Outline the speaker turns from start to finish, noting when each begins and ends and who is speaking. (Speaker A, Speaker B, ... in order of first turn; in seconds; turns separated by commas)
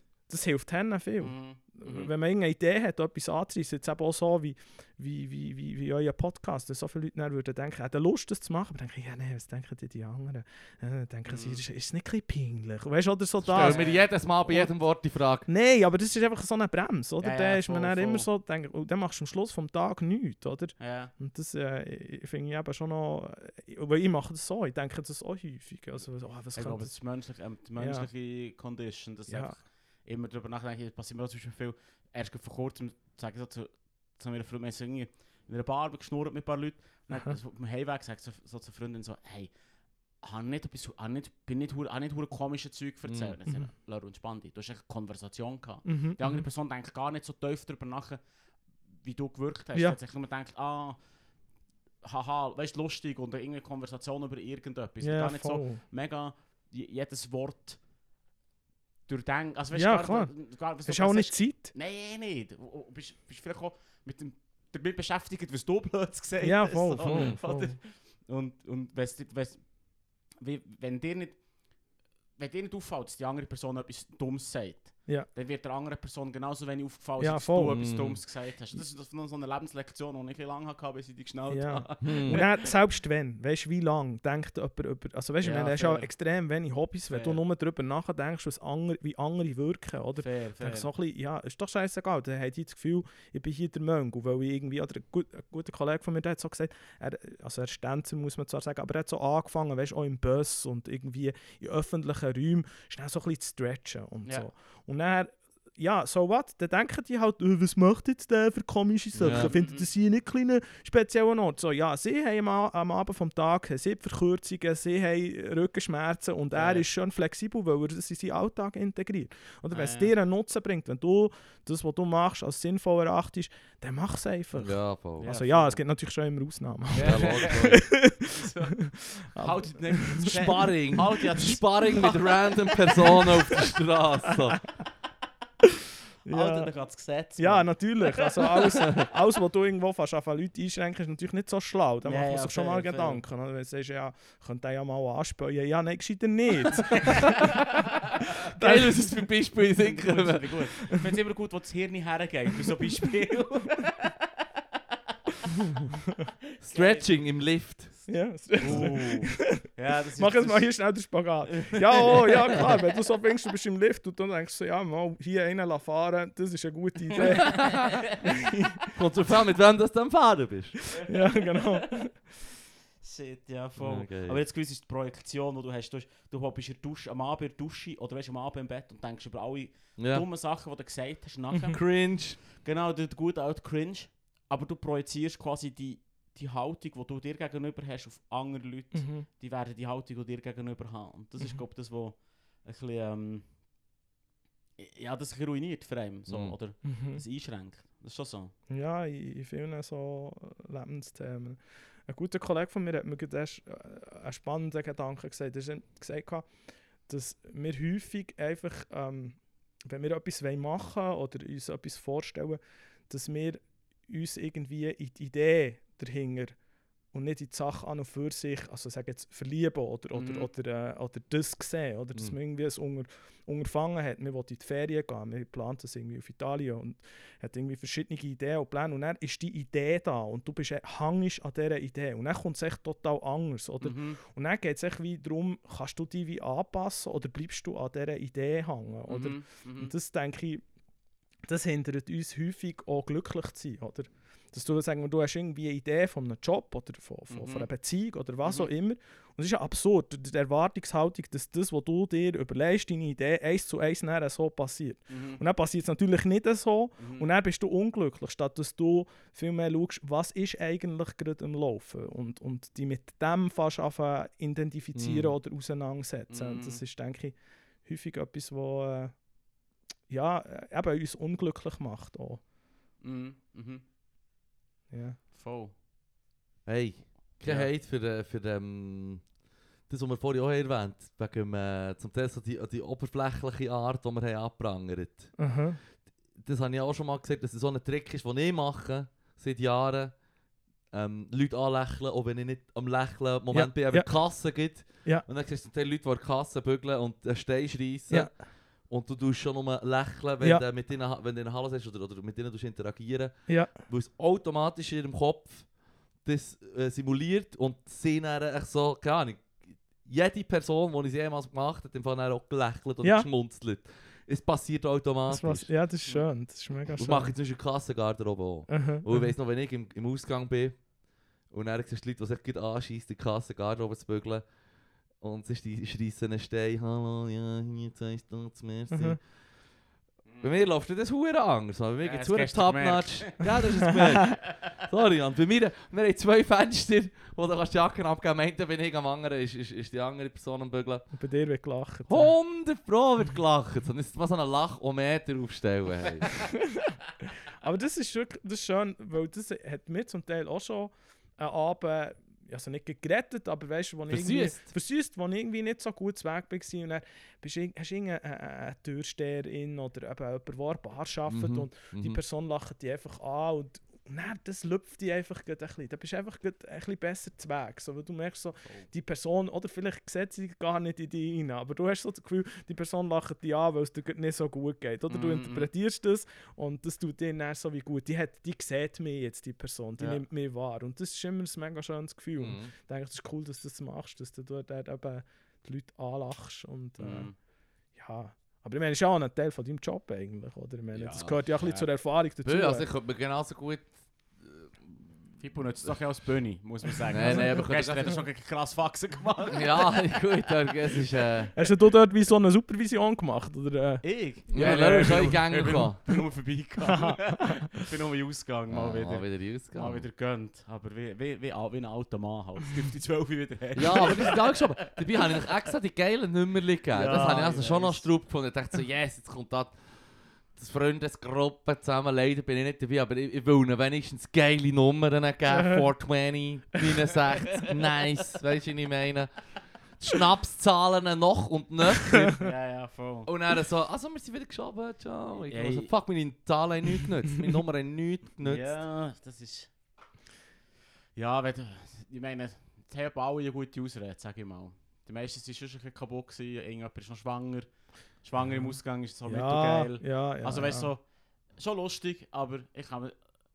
Speaker A: 0.3-27.0, Speaker B: 1.2-2.1, Speaker B: 11.3-11.6, Speaker B: 13.4-14.1, Speaker C: 13.5-15.5, Speaker B: 17.2-18.3, Speaker B: 20.8-21.1, Speaker B: 26.5-39.5, Speaker A: 27.8-28.1, Speaker A: 29.3-29.6, Speaker B: 40.1-48.2, Speaker C: 43.0-43.4, Speaker A: 45.8-46.5, Speaker B: 48.9-51.0, Speaker B: 52.0-57.8, Speaker A: 55.0-55.8, Speaker B: 59.1-71.5, Speaker A: 59.7-61.7, Speaker A: 66.4-67.8, Speaker C: 67.0-67.3, Speaker B: 72.4-82.7, Speaker A: 77.2-77.9, Speaker C: 77.7-78.2, Speaker A: 81.5-128.2, Speaker C: 82.0-82.4, Speaker B: 85.4-86.1, Speaker B: 87.1-87.4, Speaker B: 90.2-90.9, Speaker B: 109.2-109.9, Speaker C: 109.2-109.5, Speaker B: 116.5-116.8, Speaker B: 119.7-120.1, Speaker C: 124.6-125.3, Speaker B: 125.2-125.8, Speaker B: 126.9-133.2, Speaker C: 127.0-128.0, Speaker A: 128.8-130.9, Speaker C: 130.2-134.7, Speaker A: 136.2-136.7, Speaker B: 136.3-138.6, Speaker A: 137.4-147.3, Speaker B: 142.0-143.2, Speaker C: 148.4-150.7, Speaker A: 148.5-149.3, Speaker B: 149.8-154.3, Speaker C: 156.6-158.1, Speaker B: 156.7-157.2, Speaker A: 158.1-168.3, Speaker B: 158.5-162.7, Speaker C: 167.4-168.1, Speaker C: 168.9-170.8, Speaker B: 170.9-172.2, Speaker A: 171.1-172.3, Speaker B: 173.0-193.5, Speaker C: 173.8-174.4, Speaker C: 180.0-180.2, Speaker C: 181.7-182.4, Speaker A: 188.9-189.2, Speaker B: 194.8-198.5, Speaker C: 196.3-196.6, Speaker A: 196.8-197.2, Speaker A: 198.7-216.6, Speaker A: 217.1-240.6, Speaker B: 220.1-220.5, Speaker B: 233.8-234.2, Speaker B: 239.1-239.9, Speaker A: 241.4-269.2, Speaker B: 247.3-247.7, Speaker B: 248.4-248.7, Speaker B: 255.1-255.4, Speaker B: 257.0-257.3, Speaker C: 264.9-265.3, Speaker B: 266.3-266.8, Speaker A: 270.1-272.4, Speaker B: 273.0-273.8, Speaker A: 274.9-275.2, Speaker B: 275.3-275.7, Speaker C: 276.6-279.3, Speaker B: 277.4-277.7, Speaker C: 279.9-285.5, Speaker A: 285.4-285.8, Speaker C: 286.0-290.2, Speaker C: 290.9-315.7, Speaker A: 293.5-295.2, Speaker A: 298.1-298.4, Speaker A: 303.5-303.8, Speaker A: 313.0-313.3, Speaker A: 315.3-317.3, Speaker C: 317.0-320.9, Speaker A: 318.7-319.3, Speaker C: 321.4-329.3, Speaker A: 328.9-329.2, Speaker B: 330.2-330.5, Speaker C: 330.4-341.1, Speaker B: 332.0-333.9, Speaker A: 341.1-342.3, Speaker C: 342.1-346.5, Speaker A: 347.6-387.3, Speaker C: 354.1-354.7, Speaker C: 361.3-362.2, Speaker B: 375.1-375.7, Speaker C: 382.4-382.7, Speaker B: 387.0-387.3, Speaker A: 387.9-392.9, Speaker C: 390.9-391.6, Speaker C: 392.4-396.0, Speaker B: 395.4-401.5, Speaker C: 397.1-398.2, Speaker A: 397.2-398.1, Speaker C: 399.5-401.5, Speaker A: 401.5-404.1, Speaker B: 404.0-415.4, Speaker C: 404.5-406.1, Speaker A: 404.6-405.1, Speaker A: 406.9-407.5, Speaker C: 408.7-410.0, Speaker C: 413.7-432.4, Speaker B: 416.9-418.1, Speaker B: 432.4-433.3, Speaker C: 433.2-438.7, Speaker B: 435.4-435.9, Speaker B: 438.4-439.7, Speaker B: 441.1-453.3, Speaker A: 448.4-450.9